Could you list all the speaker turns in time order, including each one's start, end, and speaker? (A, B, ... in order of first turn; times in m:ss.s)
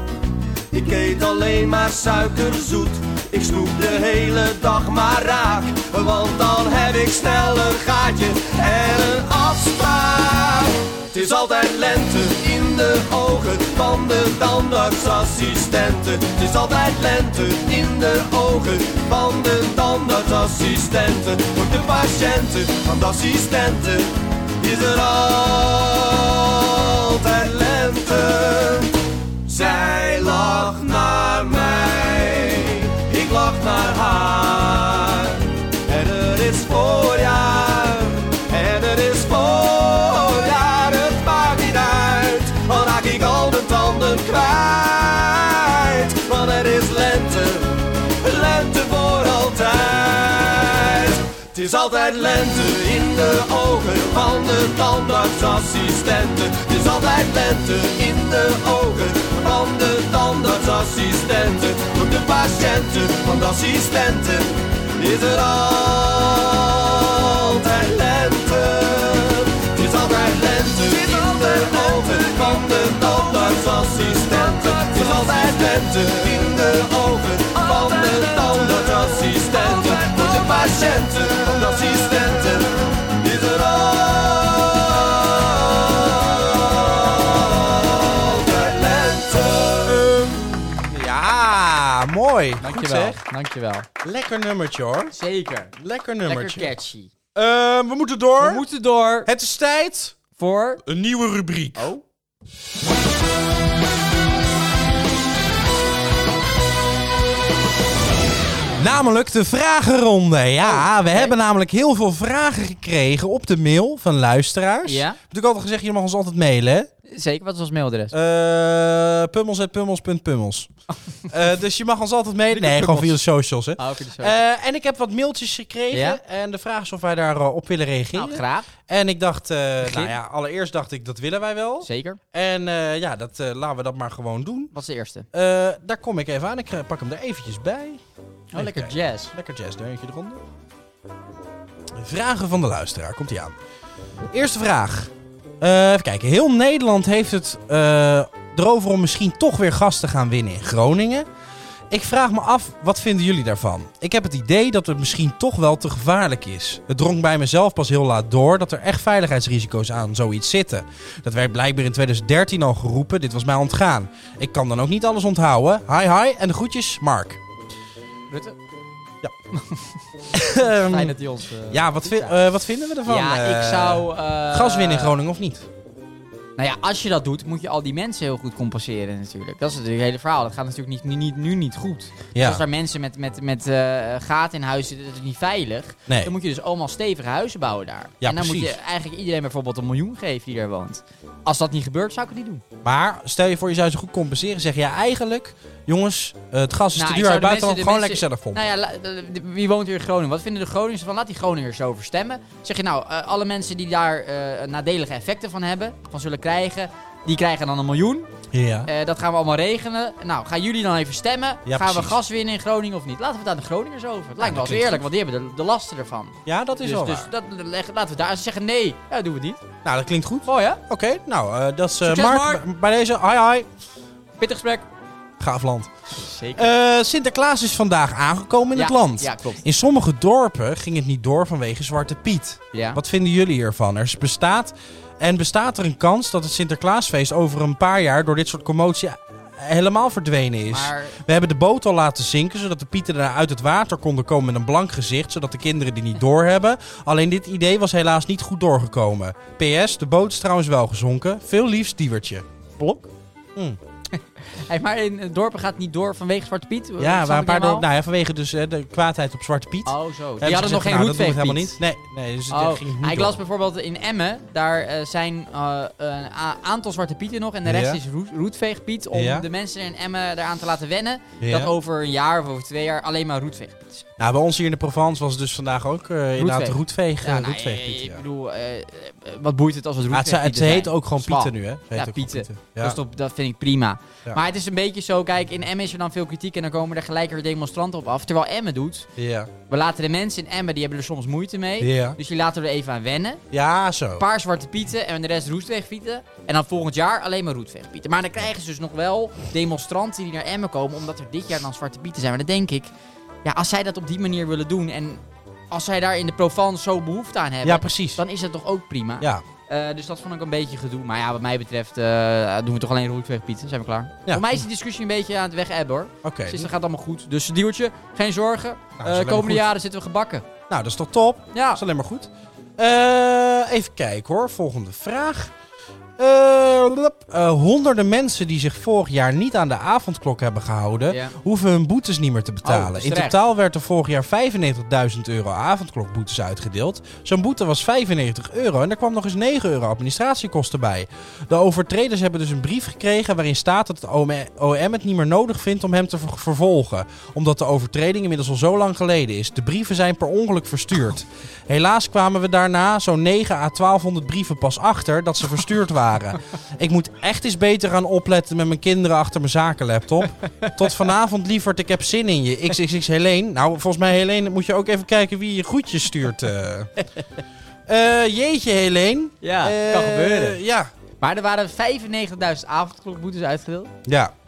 0:00.7-1:30.6 A
1:30.8-1:33.2 B
1:32.6-1:33.9 C
1:34.0-1:35.2 B
1:35.1-1:37.1 C
1:35.8-1:36.8 B
1:37.4-1:38.6 B
1:38.4-1:39.3 C
1:39.2-1:40.2 B
1:40.4-1:40.8 C
1:40.8-1:41.9 B
1:41.8-1:42.0 C
1:48.8-1:56.9 B
1:50.6-1:51.4 C
1:54.9-1:55.2 C
1:57.1-1:58.1 C
1:58.1-2:00.7 B
2:01.3-2:14.7 B
2:02.5-2:03.2 C
2:03.8-2:04.4 C
2:05.9-2:06.2 C
2:08.1-2:08.7 C
2:09.8-2:10.2 C
2:11.8-2:12.2 C
2:14.7-2:15.3 C
2:15.3-2:18.0 B
2:18.5-2:19.3 C
2:18.6-2:20.4 B
2:22.0-2:23.6 B
2:24.3-2:31.3 B
2:31.9-2:47.4 B
2:48.3-2:48.6 C
2:49.6-2:49.9 C
2:50.3-2:51.1 B
2:50.5-2:52.4 C
2:51.7-2:55.7 B
2:53.0-2:55.2 C
2:56.6-3:12.6 C
3:02.4-3:02.6 B
3:06.1-3:06.3 B
3:08.2-3:08.8 B
3:12.8-3:18.6 B
3:17.0-3:28.3 C
3:28.5-3:28.9 B
3:28.9-3:39.6 C
3:31.7-3:32.2 B
3:34.4-3:35.0 B
3:36.5-3:37.3 B
3:39.8-3:43.7 B
3:40.5-3:40.8 C
3:42.0-3:42.6 C
3:44.4-3:44.9 C
3:45.4-3:45.9 B
3:46.1-3:46.7 C
3:46.6-4:12.5 B
3:48.8-3:49.6 C
3:52.7-3:53.0 C
4:00.7-4:01.2 C
4:12.8-4:13.1 C
4:14.1-4:17.9 C
4:17.0-4:23.4 B
4:19.9-4:21.8 C
4:22.5-4:34.0 C
4:27.6-4:28.0 B
4:29.1-4:29.5 B
4:31.4-4:31.7 B
4:34.2-4:38.2 B
4:36.4-4:49.1 C
4:40.1-4:43.0 B
4:49.2-4:49.5 B
4:49.7-4:53.4 C
4:51.8-4:52.2 B
4:53.5-4:54.2 B
4:54.2-5:02.9 C
5:03.4-5:20.5 C
5:07.6-5:08.2 B
5:14.3-5:14.6 B
5:16.2-5:16.7 B
5:19.0-5:19.7 B
5:20.7-5:25.5 B
5:21.5-5:21.8 C
5:26.2-6:06.9 B
5:31.1-5:31.4 C
5:32.6-5:33.4 C
6:00.4-6:00.8 C
6:07.9-6:10.9 B
6:09.4-6:10.6 C
6:11.2-6:13.9 C
6:14.0-6:14.3 B